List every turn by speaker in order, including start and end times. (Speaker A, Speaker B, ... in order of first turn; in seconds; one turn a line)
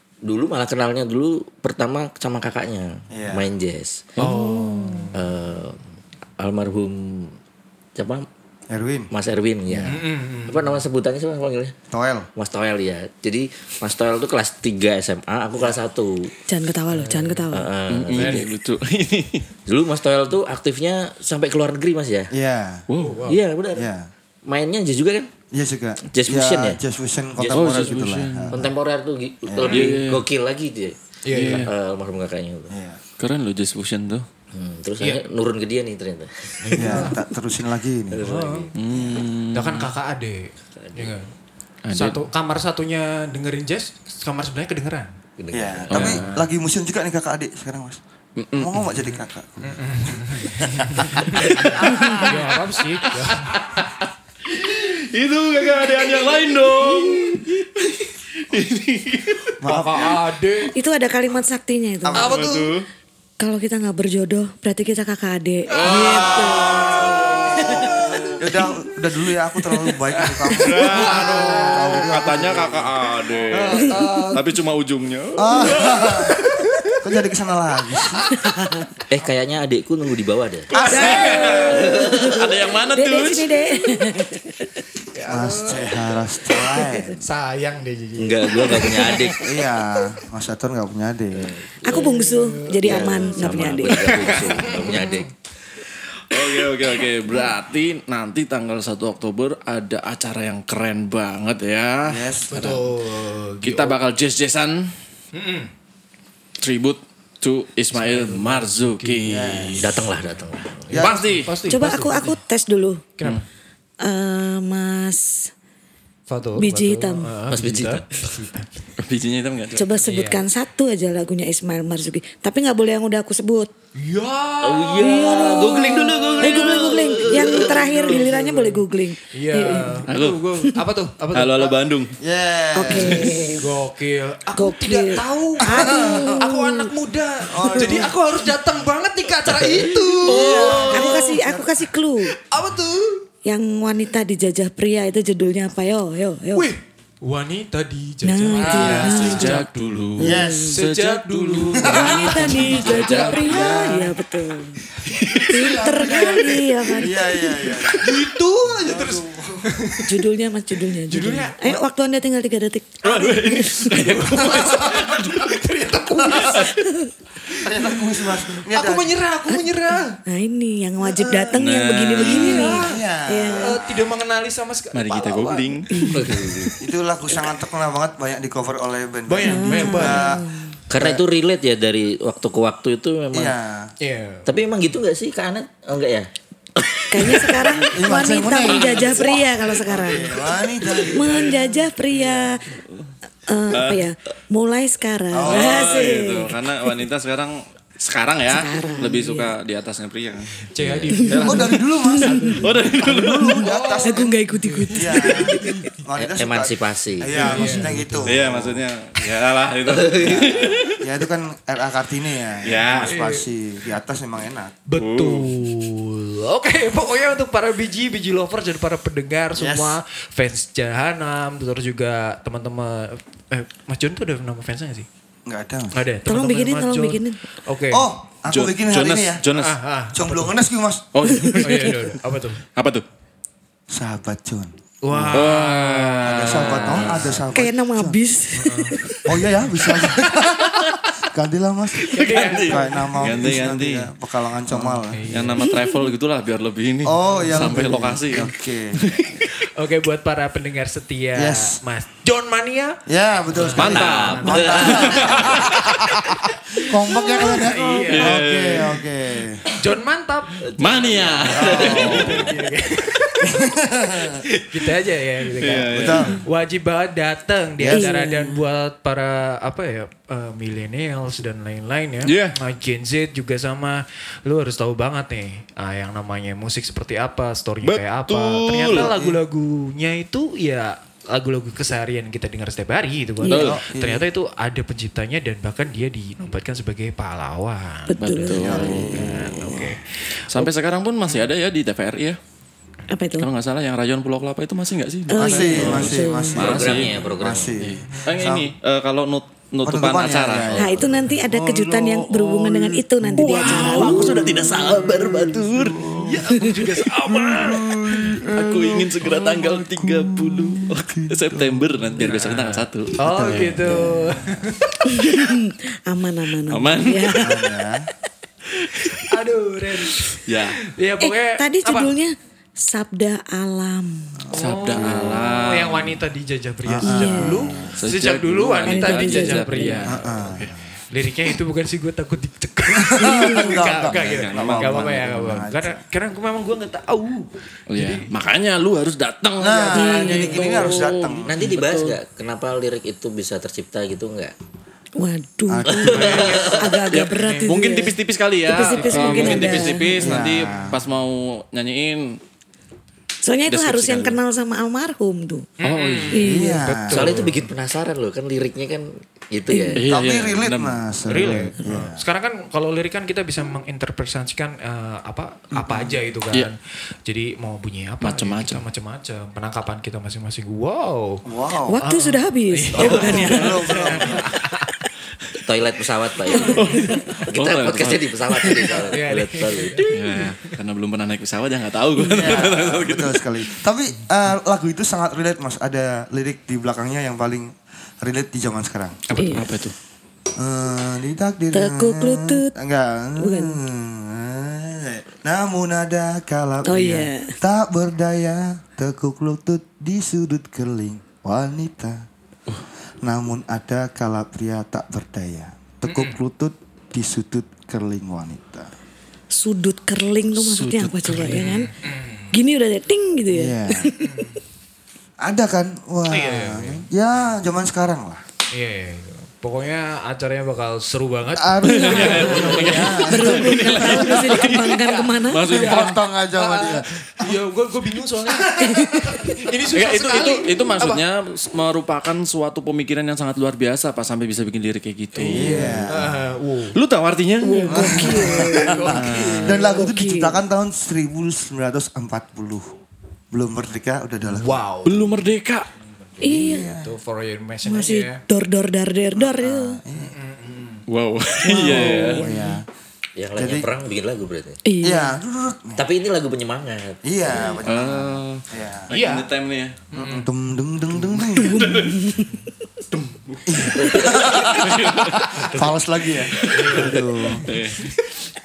Speaker A: 0.2-4.2
Speaker B: 3.1-3.5
Speaker C: 4.2-5.2
Speaker A: 5.1-5.8
Speaker A: 6.4-7.4
Speaker A: 8.0-8.2
Speaker B: 8.7-9.1
Speaker A: 9.1-11.7
Speaker C: 9.8-10.8
Speaker B: 11.9-12.3
Speaker A: 12.3-16.3
Speaker D: 16.5-17.7
Speaker C: 16.9-17.5
Speaker A: 17.5-18.5
Speaker E: 17.9-19.5
Speaker C: 18.1-18.4
Speaker A: 19.7-22.3
Speaker B: 22.3-22.9
Speaker E: 22.9-23.2
Speaker C: 23.0-23.4
Speaker A: 23.2-23.9
Speaker B: 23.7-24.1
Speaker A: 24.4-25.3
Speaker B: 25.5-28.7
Speaker A: 26.1-26.8
Speaker A: 27.4-28.0
Speaker E: 27.5-28.6
Speaker A: 28.5-32.7
Speaker B: 29.4-29.9
Speaker E: 29.6-30.2
Speaker C: 31.2-31.7
Speaker E: 31.3-31.7
Speaker B: 32.7-33.0
Speaker E: 33.2-34.3
Speaker A: 34.5-37.2
Speaker C: 36.6-37.2
Speaker B: 36.7-38.2
Speaker A: 38.1-39.2
Speaker C: 38.2-38.7
Speaker E: 38.7-39.9
Speaker C: 39.5-41.3
Speaker A: 40.7-41.2
Speaker E: 41.8-42.2
Speaker C: 41.9-45.1
Speaker A: 45.4-46.2
Speaker B: 45.5-48.0
Speaker E: 45.9-46.4
Speaker E: 48.4-48.8
Speaker B: 48.5-51.5
Speaker C: 49.6-53.6
Speaker E: 51.8-52.5
Speaker E: 53.0-59.5
Speaker B: 59.6-60.2
Speaker C: 59.6-60.7
Speaker D: 60.7-62.4
Speaker B: 62.0-62.5
Speaker C: 62.1-62.7
Speaker E: 62.3-62.8
Speaker D: 63.4-68.2
Speaker E: 65.7-67.9
Speaker C: 65.8-68.1
Speaker B: 68.4-72.9
Speaker E: 70.5-76.3
Speaker C: 70.9-72.0
Speaker C: 73.5-74.4
Speaker D: 73.8-74.1
Speaker B: 75.4-76.4
Speaker C: 76.4-76.9
Speaker B: 77.0-78.3
Speaker A: 79.1-80.7
Speaker E: 80.8-83.6
Speaker B: 80.8-81.5
Speaker C: 80.8-81.9
Speaker D: 80.8-84.7
Speaker A: 81.7-82.4
Speaker C: 85.1-86.1
Speaker B: 85.3-87.2
Speaker D: 86.6-87.1
Speaker C: 87.2-89.4
Speaker A: 88.2-89.5
Speaker B: 89.4-91.6
Speaker A: 91.3-92.2
Speaker D: 91.8-94.4
Speaker C: 91.9-95.3
Speaker A: 92.8-95.3
Speaker E: 96.3-102.8
Speaker B: 102.0-102.5
Speaker C: 102.5-104.0
Speaker E: 103.6-104.9
Speaker C: 105.3-105.7
Speaker E: 106.6-110.2
Speaker C: 107.9-109.5
Speaker B: 109.3-110.0
Speaker A: 109.8-111.0
Speaker B: 110.9-111.2
Speaker E: 110.9-111.6
Speaker C: 110.9-112.4
Speaker D: 111.6-113.1
Speaker C: 113.2-113.4
Speaker D: 114.0-115.5
Speaker C: 116.3-118.7
Speaker D: 116.5-117.3
Speaker A: 117.5-118.5
Speaker E: 119.0-119.8
Speaker D: 119.7-123.7
Speaker C: 119.9-120.4
Speaker C: 124.0-125.7
Speaker A: 124.6-128.0
Speaker D: 125.0-130.0
Speaker E: 125.5-127.1
Speaker C: 127.5-131.8
Speaker E: 130.1-130.4
Speaker E: 131.3-132.2
Speaker B: 132.2-133.3
Speaker D: 132.7-133.7
Speaker E: 132.8-133.4
Speaker C: 133.5-140.9
Speaker D: 134.6-136.9
Speaker B: 135.6-136.5
Speaker B: 137.4-138.1
Speaker B: 140.2-141.8
Speaker E: 140.2-141.3
Speaker D: 140.9-142.3
Speaker C: 142.4-143.2
Speaker D: 143.4-146.7
Speaker C: 146.5-149.7
Speaker D: 148.2-149.6
Speaker B: 148.5-149.4
Speaker E: 148.7-153.6
Speaker B: 150.2-150.8
Speaker D: 150.2-150.8
Speaker C: 150.7-154.1
Speaker B: 151.8-152.6
Speaker D: 151.9-154.8
Speaker B: 153.4-154.1
Speaker E: 155.1-155.8
Speaker D: 155.5-157.6
Speaker B: 155.5-159.7
Speaker C: 157.9-160.2
Speaker D: 160.1-163.9
Speaker C: 161.1-161.6
Speaker E: 163.0-165.7
Speaker C: 163.9-166.7
Speaker B: 164.4-165.3
Speaker B: 166.2-166.6
Speaker D: 166.3-167.1
Speaker C: 167.5-168.0
Speaker B: 167.6-169.1
Speaker C: 168.6-170.2
Speaker D: 170.2-173.8
Speaker E: 171.5-172.8
Speaker C: 172.2-173.0
Speaker B: 172.5-174.1
Speaker C: 173.6-176.5
Speaker E: 174.9-176.1
Speaker D: 175.9-176.2
Speaker A: 176.1-176.8
Speaker B: 176.8-181.2
Speaker C: 179.3-180.4
Speaker D: 179.4-180.8
Speaker A: 180.9-183.5
Speaker B: 183.3-183.9
Speaker C: 184.0-184.5
Speaker A: 184.4-187.7
Speaker D: 187.1-192.6
Speaker B: 187.8-191.8
Speaker E: 188.6-189.2
Speaker C: 191.2-191.5
Speaker D: 193.5-196.9
Speaker E: 193.7-194.1
Speaker B: 195.3-196.2
Speaker E: 195.4-200.5
Speaker D: 198.5-199.5
Speaker C: 200.7-202.8
Speaker D: 201.2-202.6
Speaker E: 201.2-201.8
Speaker B: 201.4-204.4
Speaker E: 202.6-203.6
Speaker D: 203.2-205.8
Speaker C: 203.6-205.8
Speaker B: 204.9-208.8
Speaker A: 206.2-207.5
Speaker C: 207.3-208.4
Speaker E: 208.2-211.0
Speaker A: 209.8-210.5
Speaker B: 210.2-214.8
Speaker E: 212.6-213.2
Speaker C: 213.1-213.4
Speaker C: 214.9-225.1
Speaker E: 215.0-215.5
Speaker B: 219.6-220.0
Speaker B: 225.4-226.0
Speaker C: 225.9-228.1
Speaker D: 226.2-227.4
Speaker B: 227.9-229.4
Speaker E: 228.5-229.8
Speaker C: 229.5-230.5
Speaker B: 230.1-231.3
Speaker E: 231.1-232.1
Speaker D: 231.3-231.9
Speaker C: 231.6-232.6
Speaker E: 232.7-233.0
Speaker B: 233.9-235.5
Speaker C: 235.0-237.2
Speaker E: 235.3-237.4
Speaker B: 236.2-238.2
Speaker D: 237.5-239.4
Speaker C: 238.6-239.0
Speaker B: 239.2-245.2
Speaker E: 240.0-240.9
Speaker E: 242.0-244.1
Speaker C: 242.1-243.4
Speaker C: 244.8-245.7
Speaker E: 245.3-249.6
Speaker D: 245.7-245.9
Speaker B: 247.0-249.2
Speaker C: 247.2-247.9
Speaker C: 249.7-258.4
Speaker B: 251.3-251.8
Speaker B: 253.1-256.2
Speaker E: 253.7-255.6
Speaker A: 253.8-255.2
Speaker B: 256.9-259.6
Speaker E: 258.0-259.0
Speaker C: 259.8-260.6
Speaker A: 260.6-262.1
Speaker E: 260.8-262.5
Speaker C: 261.5-263.5
Speaker B: 261.5-262.5
Speaker B: 263.4-264.4
Speaker C: 264.6-290.0
Speaker E: 265.6-266.4
Speaker B: 265.9-266.4
Speaker B: 267.8-268.2
Speaker D: 267.9-268.5
Speaker E: 272.2-272.6
Speaker E: 277.8-279.1
Speaker B: 278.9-279.4
Speaker D: 283.4-283.7
Speaker E: 283.5-283.8
Speaker B: 283.5-284.2
Speaker D: 288.1-289.1
Speaker E: 288.2-289.4
Speaker B: 288.5-290.0
Speaker E: 290.5-292.4
Speaker D: 293.1-293.5
Speaker E: 293.4-297.2
Speaker D: 295.3-296.8
Speaker B: 295.4-298.7
Speaker A: 295.7-297.7
Speaker E: 297.8-301.0
Speaker C: 298.1-298.4
Speaker B: 299.8-306.7
Speaker D: 300.8-304.5
Speaker E: 303.3-306.1
Speaker C: 306.2-307.9
Speaker D: 306.4-306.9
Speaker B: 307.2-312.2
Speaker E: 308.5-314.0
Speaker C: 312.2-315.0
Speaker B: 313.2-314.6
Speaker D: 315.0-317.7
Speaker E: 316.7-317.6
Speaker B: 317.4-318.1
Speaker C: 319.3-322.1
Speaker E: 320.4-320.8
Speaker D: 321.2-324.5
Speaker B: 324.4-325.4
Speaker C: 324.5-330.2
Speaker E: 324.5-326.2
Speaker B: 326.8-327.9
Speaker D: 327.0-327.9
Speaker E: 328.0-330.7
Speaker D: 328.9-330.1
Speaker B: 330.1-330.9
Speaker C: 331.1-338.3
Speaker B: 333.0-336.0
Speaker D: 333.2-333.8
Speaker E: 334.1-335.3
Speaker E: 337.9-342.2
Speaker B: 339.6-341.6
Speaker D: 339.9-341.0
Speaker A: 341.4-344.5
Speaker D: 345.2-348.1
Speaker B: 345.7-346.6
Speaker A: 345.9-346.9
Speaker C: 346.1-347.7
Speaker E: 347.1-352.4
Speaker D: 348.6-350.3
Speaker C: 348.9-350.1
Speaker B: 350.2-351.0
Speaker D: 353.4-355.7
Speaker E: 353.6-354.4
Speaker C: 355.8-357.6
Speaker E: 355.8-356.6
Speaker D: 356.3-357.0
Speaker B: 356.4-357.5
Speaker A: 357.1-360.0
Speaker D: 359.7-360.0
Speaker E: 359.9-361.6
Speaker B: 360.1-362.2
Speaker C: 361.3-371.4
Speaker E: 368.2-368.8
Speaker B: 371.4-372.0
Speaker D: 371.9-374.2
Speaker C: 372.0-374.9
Speaker B: 372.9-374.5
Speaker A: 375.6-380.2
Speaker E: 376.7-379.1
Speaker C: 379.1-380.8
Speaker E: 380.1-383.5
Speaker B: 382.3-389.2
Speaker C: 389.3-389.6
Speaker D: 389.4-389.6
Speaker E: 389.4-389.9
Speaker B: 390.6-402.3
Speaker D: 391.7-392.7
Speaker D: 393.4-393.8
Speaker D: 396.8-397.6
Speaker C: 396.9-397.2
Speaker B: 403.2-408.9
Speaker C: 406.0-406.4
Speaker D: 409.5-411.9
Speaker E: 410.5-411.7
Speaker C: 411.3-412.5
Speaker D: 412.5-414.5
Speaker B: 413.5-414.1
Speaker C: 414.2-414.6
Speaker B: 415.4-418.4
Speaker C: 416.3-417.1
Speaker C: 418.7-423.3
Speaker B: 421.5-424.7
Speaker E: 421.8-426.1
Speaker D: 422.0-425.6
Speaker B: 425.6-427.6
Speaker C: 425.7-431.2
Speaker D: 428.8-429.4
Speaker E: 429.9-436.1
Speaker C: 435.4-437.0
Speaker B: 435.5-436.4
Speaker E: 436.9-439.8
Speaker D: 437.6-440.6
Speaker B: 437.9-442.9
Speaker C: 437.9-439.8
Speaker B: 443.5-444.8
Speaker C: 444.4-445.3
Speaker E: 445.0-445.9
Speaker C: 446.4-448.4
Speaker D: 446.4-446.9
Speaker B: 446.4-447.1
Speaker D: 447.8-450.0
Speaker B: 449.3-450.3
Speaker C: 450.2-451.0
Speaker E: 451.1-452.4
Speaker D: 451.6-452.7
Speaker B: 451.9-452.9
Speaker A: 453.4-454.8
Speaker B: 453.6-453.9
Speaker D: 454.8-455.4
Speaker B: 455.0-456.0
Speaker A: 455.9-457.7
Speaker B: 457.2-459.1
Speaker E: 457.8-460.0
Speaker C: 459.1-459.5
Speaker C: 460.1-460.5
Speaker B: 460.1-461.9
Speaker E: 461.3-462.4
Speaker D: 461.6-462.6
Speaker E: 463.1-465.9
Speaker B: 463.7-467.6
Speaker A: 463.9-464.4
Speaker E: 466.4-468.1
Speaker C: 466.7-467.7